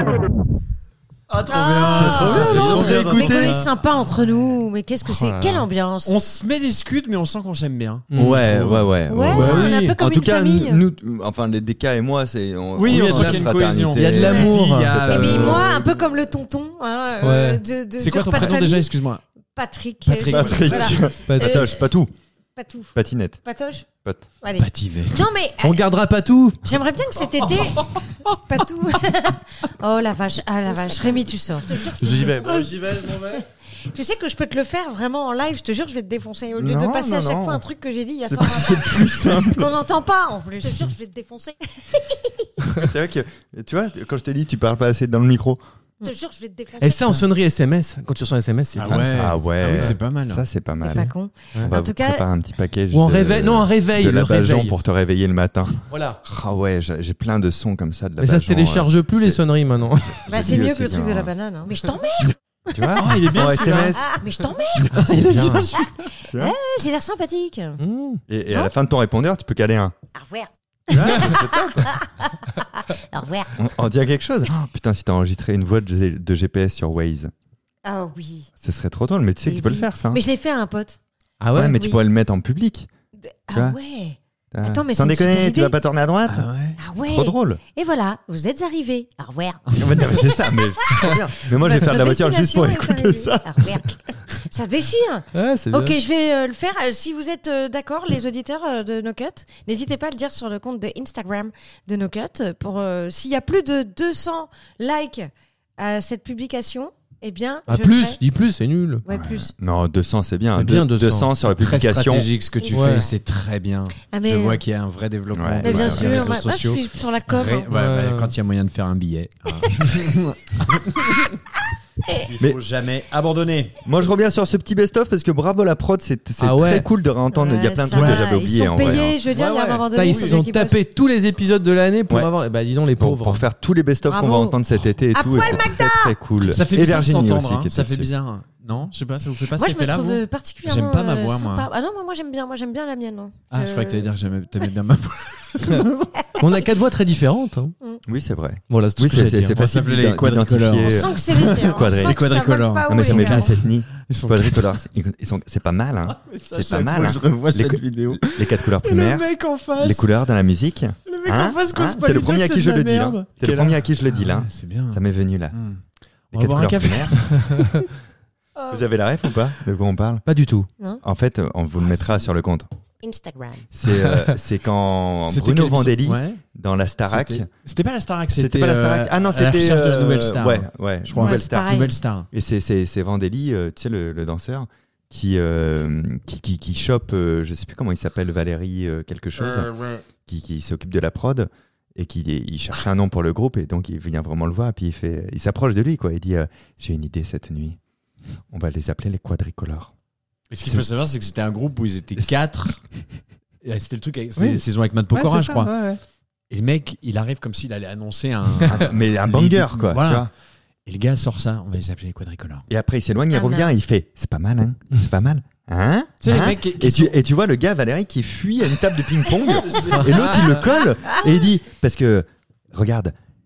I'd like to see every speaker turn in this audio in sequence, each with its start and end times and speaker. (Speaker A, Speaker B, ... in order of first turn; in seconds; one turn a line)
Speaker A: 1.3-3.7
Speaker B: 1.5-6.1
Speaker C: 1.9-3.7
Speaker D: 2.1-3.5
Speaker D: 5.0-5.7
Speaker A: 6.0-8.9
Speaker D: 8.1-8.5
Speaker C: 8.1-15.8
Speaker B: 9.1-10.8
Speaker D: 9.3-10.0
Speaker A: 12.7-16.0
Speaker D: 12.8-15.1
Speaker B: 14.2-14.5
Speaker B: 15.1-18.9
Speaker D: 17.2-17.6
Speaker A: 18.0-19.2
Speaker B: 19.5-21.8
Speaker A: 20.1-21.1
Speaker C: 20.2-22.1
Speaker D: 21.3-21.7
Speaker B: 22.6-23.9
Speaker C: 22.9-23.4
Speaker B: 24.4-25.8
Speaker A: 24.6-25.2
Speaker D: 25.6-26.6
Speaker B: 26.6-42.5
Speaker C: 32.0-32.7
Speaker A: 32.2-33.4
Speaker C: 36.5-37.6
Speaker C: 38.3-39.7
Speaker C: 42.7-45.6
Speaker B: 46.0-47.2
Speaker D: 46.8-50.0
Speaker A: 48.8-50.4
Speaker C: 48.8-59.4
Speaker B: 50.8-52.2
Speaker D: 52.9-54.7
Speaker D: 55.9-56.2
Speaker D: 58.2-60.2
Speaker C: 60.1-61.3
Speaker B: 60.3-63.0
Speaker C: 62.7-64.2
Speaker A: 62.9-64.0
Speaker B: 64.0-67.8
Speaker C: 64.8-65.7
Speaker A: 64.9-65.8
Speaker C: 66.3-66.5
Speaker D: 67.8-68.2
Speaker C: 68.3-69.9
Speaker B: 70.1-73.5
Speaker C: 70.9-71.9
Speaker C: 73.5-77.3
Speaker B: 77.8-78.5
Speaker C: 78.6-80.2
Speaker B: 79.4-81.0
Speaker D: 81.4-81.8
Speaker C: 81.5-82.9
Speaker B: 81.6-82.0
Speaker B: 83.2-85.8
Speaker C: 83.5-83.8
Speaker C: 84.5-87.6
Speaker A: 86.3-86.8
Speaker B: 86.8-108.2
Speaker C: 89.7-94.0
Speaker D: 95.3-96.0
Speaker D: 107.7-109.0
Speaker B: 109.0-109.5
Speaker C: 109.1-112.3
Speaker D: 110.5-111.3
Speaker A: 111.4-121.3
Speaker B: 112.6-113.2
Speaker D: 112.7-113.1
Speaker B: 114.1-114.6
Speaker C: 115.3-116.4
Speaker B: 115.6-117.7
Speaker D: 117.7-118.3
Speaker A: 122.2-123.8
Speaker C: 123.8-129.2
Speaker D: 126.4-126.8
Speaker B: 127.3-130.8
Speaker A: 127.9-128.2
Speaker A: 129.2-130.4
Speaker D: 129.9-133.4
Speaker C: 133.0-138.1
Speaker B: 134.1-134.6
Speaker B: 135.1-136.2
Speaker A: 136.4-141.7
Speaker B: 139.5-144.1
Speaker A: 143.5-146.1
Speaker D: 146.4-147.7
Speaker C: 148.1-165.6
Speaker D: 148.7-149.6
Speaker A: 149.5-154.8
Speaker B: 150.8-153.5
Speaker A: 156.1-160.1
Speaker A: 161.1-165.0
Speaker A: 165.5-167.8
Speaker C: 166.3-167.2
Speaker A: 168.6-168.8
Speaker C: 168.7-170.2
Speaker D: 170.2-170.7
Speaker C: 171.0-172.7
Speaker B: 173.0-173.7
Speaker C: 173.7-177.5
Speaker D: 174.0-174.3
Speaker A: 175.3-176.4
Speaker A: 177.1-182.3
Speaker C: 178.3-189.7
Speaker B: 181.2-181.9
Speaker A: 189.4-190.0
Speaker C: 190.2-197.8
Speaker C: 198.5-199.9
Speaker A: 200.5-202.8
Speaker C: 200.6-200.9
Speaker A: 203.6-205.7
Speaker C: 204.3-206.0
Speaker A: 206.5-210.3
Speaker C: 208.7-210.3
Speaker A: 210.8-212.7
Speaker C: 212.7-223.1
Speaker B: 213.3-213.8
Speaker A: 216.2-217.2
Speaker A: 219.6-220.7
Speaker D: 219.9-220.2